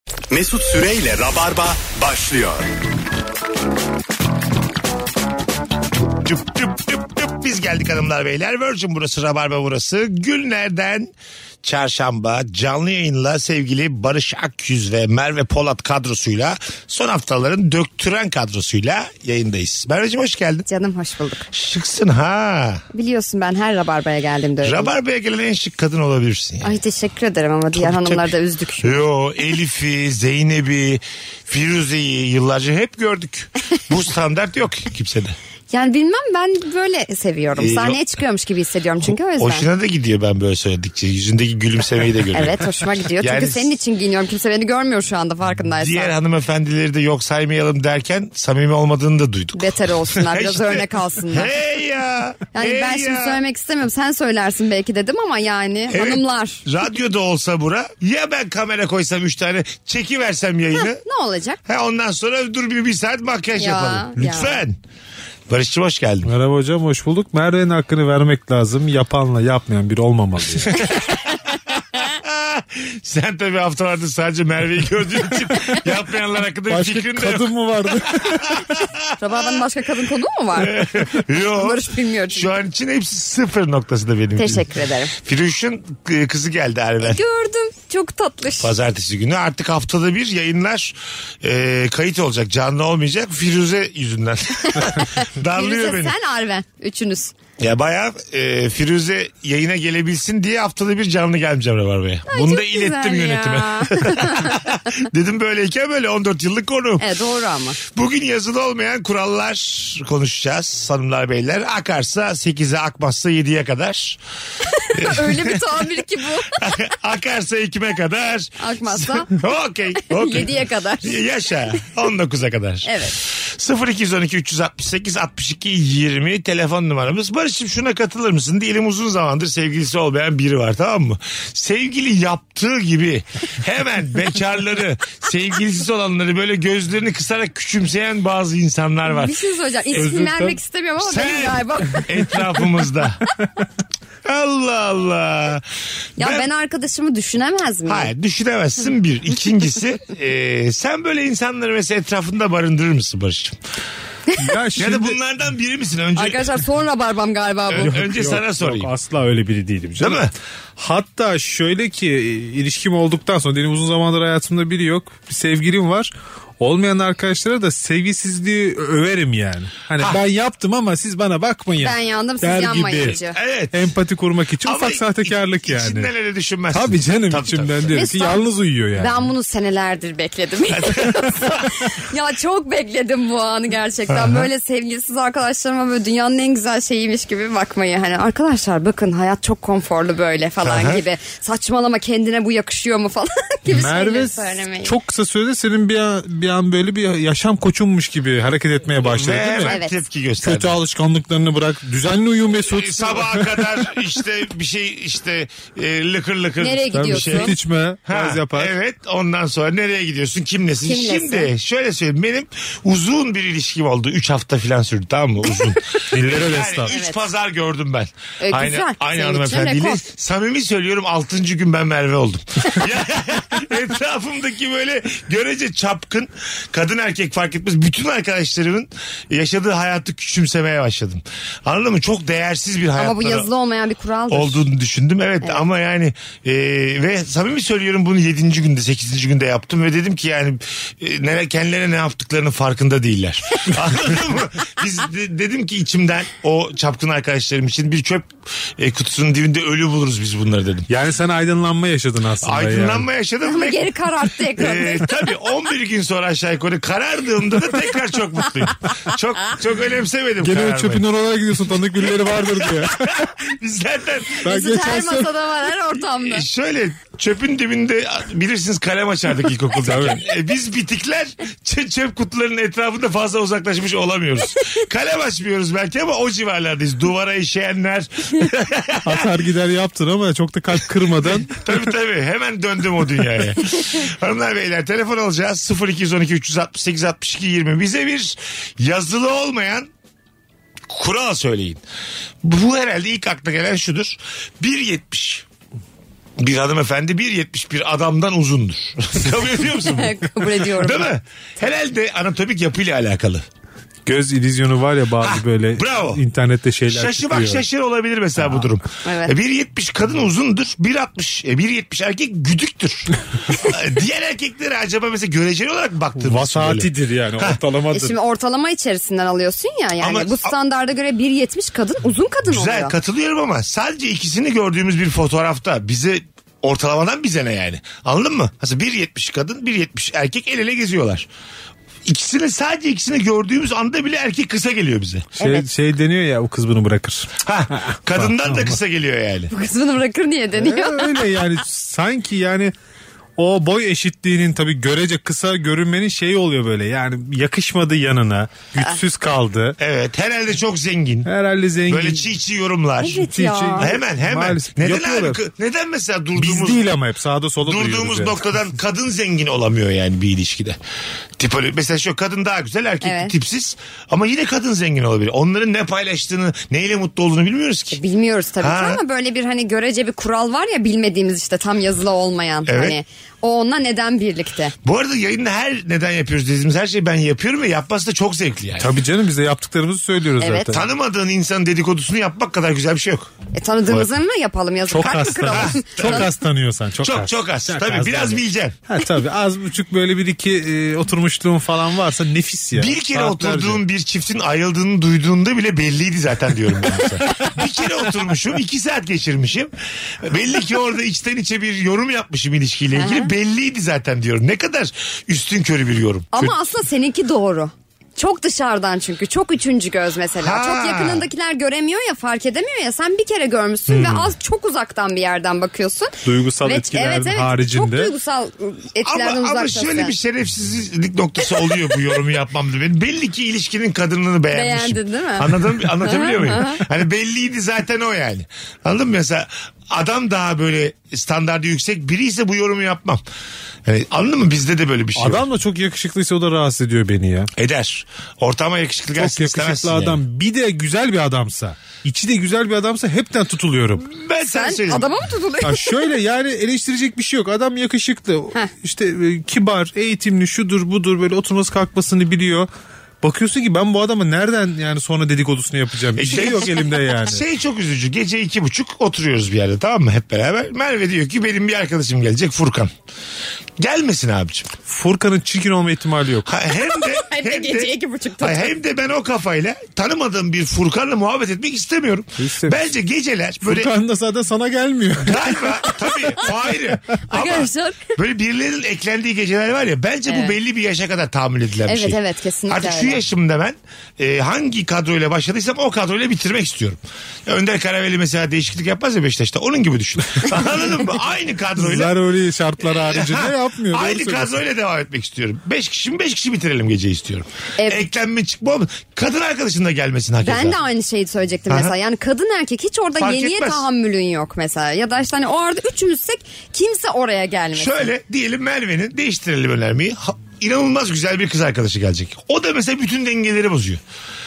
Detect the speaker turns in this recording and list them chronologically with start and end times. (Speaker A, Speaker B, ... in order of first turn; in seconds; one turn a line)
Speaker A: 0.3-2.7
Speaker B: 6.0-20.7
Speaker C: 20.7-21.5
Speaker B: 21.5-22.8
Speaker C: 22.9-24.9
Speaker B: 24.6-26.8
Speaker C: 26.6-29.0
Speaker B: 27.8-35.4
Speaker C: 35.7-39.7
Speaker B: 37.6-38.0
Speaker B: 39.4-42.7
Speaker C: 42.3-46.1
Speaker B: 43.2-43.7
Speaker B: 45.8-53.4
Speaker C: 49.5-51.5
Speaker C: 52.5-56.6
Speaker B: 55.9-61.0
Speaker C: 60.8-61.6
Speaker B: 61.7-64.8
Speaker C: 63.6-64.6
Speaker B: 65.5-66.3
Speaker D: 66.2-70.9
Speaker B: 72.0-77.6
Speaker D: 76.7-78.8
Speaker B: 78.1-79.6
Speaker C: 79.2-82.5
Speaker B: 80.6-87.2
Speaker C: 84.4-85.1
Speaker C: 87.0-88.7
Speaker B: 88.6-96.2
Speaker C: 94.7-97.3
Speaker B: 97.6-107.1
Speaker C: 102.3-104.8
Speaker C: 107.0-107.8
Speaker B: 107.9-114.2
Speaker C: 114.8-116.8
Speaker B: 114.9-115.8
Speaker B: 116.6-139.4
Speaker C: 118.6-119.4
Speaker C: 120.0-121.2
Speaker C: 122.8-123.2
Speaker C: 139.1-142.1
Speaker D: 139.9-140.6
Speaker B: 141.0-143.2
Speaker B: 144.2-145.7
Speaker B: 146.2-146.5
Speaker C: 146.2-148.1
Speaker B: 147.9-153.6
Speaker D: 154.4-155.2
Speaker B: 154.8-156.5
Speaker C: 156.2-158.1
Speaker B: 157.7-158.9
Speaker D: 157.8-160.3
Speaker B: 160.0-160.3
Speaker D: 160.8-173.2
Speaker C: 171.8-173.4
Speaker B: 173.2-173.9
Speaker D: 173.7-176.1
Speaker B: 174.6-178.0
Speaker D: 176.7-179.3
Speaker C: 177.9-178.4
Speaker C: 178.9-194.9
Speaker B: 180.7-181.7
Speaker B: 184.1-184.5
Speaker B: 190.6-191.0
Speaker D: 193.7-199.7
Speaker B: 199.0-200.8
Speaker C: 199.7-200.0
Speaker D: 200.4-203.9
Speaker B: 202.7-233.5
Speaker C: 206.6-207.6
Speaker D: 206.9-208.7
Speaker C: 210.8-211.5
Speaker D: 216.1-216.9
Speaker C: 216.9-217.2
Speaker C: 218.4-220.0
Speaker C: 233.0-234.7
Speaker B: 234.3-250.9
Speaker D: 250.9-253.1
Speaker B: 252.4-253.9
Speaker C: 253.4-255.1
Speaker B: 254.6-261.1
Speaker D: 260.4-263.3
Speaker B: 262.0-264.4
Speaker D: 264.4-265.3
Speaker C: 264.5-266.5
Speaker B: 266.2-279.3
Speaker D: 269.8-270.2
Speaker D: 279.0-281.6
Speaker B: 281.5-289.9
Speaker B: 290.9-291.8
Speaker B: 292.4-295.5
Speaker B: 296.4-303.4
Speaker C: 299.9-301.1
Speaker D: 304.1-307.6
Speaker B: 305.2-306.2
Speaker B: 306.9-317.6
Speaker C: 309.0-309.4
Speaker D: 316.2-318.1
Speaker C: 317.9-322.9
Speaker B: 320.0-320.5
Speaker B: 322.5-331.3
Speaker B: 332.1-335.3
Speaker C: 335.4-335.7
Speaker D: 335.4-338.8
Speaker B: 337.4-339.5
Speaker C: 339.5-341.2
Speaker D: 340.6-342.7
Speaker D: 343.4-349.8
Speaker B: 349.8-351.3
Speaker D: 351.3-352.2
Speaker B: 351.9-353.3
Speaker C: 353.0-353.9
Speaker D: 353.2-355.4
Speaker B: 353.8-356.9
Speaker D: 356.4-358.3
Speaker B: 357.6-360.8
Speaker B: 361.4-368.0
Speaker C: 363.0-363.3
Speaker C: 367.9-374.8
Speaker B: 368.6-369.0
Speaker B: 372.7-373.0
Speaker B: 374.8-378.9
Speaker D: 378.8-380.8
Speaker C: 380.4-380.7
Speaker B: 380.7-383.3
Speaker C: 383.5-386.3
Speaker D: 384.9-393.8
Speaker B: 385.5-386.3
Speaker B: 387.0-388.8
Speaker B: 392.8-406.5
Speaker C: 402.9-403.3
Speaker C: 406.3-420.1
Speaker B: 410.4-411.3
Speaker B: 413.9-414.3
Speaker D: 416.2-418.1
Speaker B: 419.0-433.2
Speaker C: 424.5-426.8
Speaker B: 433.9-435.4
Speaker D: 435.2-437.5
Speaker B: 437.6-440.2
Speaker D: 439.2-444.1
Speaker B: 444.1-445.1
Speaker C: 444.5-446.1
Speaker D: 445.6-452.7
Speaker D: 453.2-457.4
Speaker B: 456.2-462.9
Speaker B: 463.8-464.7
Speaker D: 464.9-466.5
Speaker B: 466.5-473.9
Speaker C: 466.7-468.7
Speaker D: 472.4-472.8
Speaker D: 473.6-475.7
Speaker B: 475.2-492.1
Speaker C: 475.9-476.1
Speaker C: 477.3-478.1
Speaker C: 480.3-480.6
Speaker C: 481.9-483.2
Speaker D: 491.8-494.6
Speaker B: 492.8-500.8
Speaker C: 497.8-498.0
Speaker C: 500.4-508.1
Speaker B: 501.7-501.9
Speaker B: 503.2-503.9
Speaker B: 507.8-514.0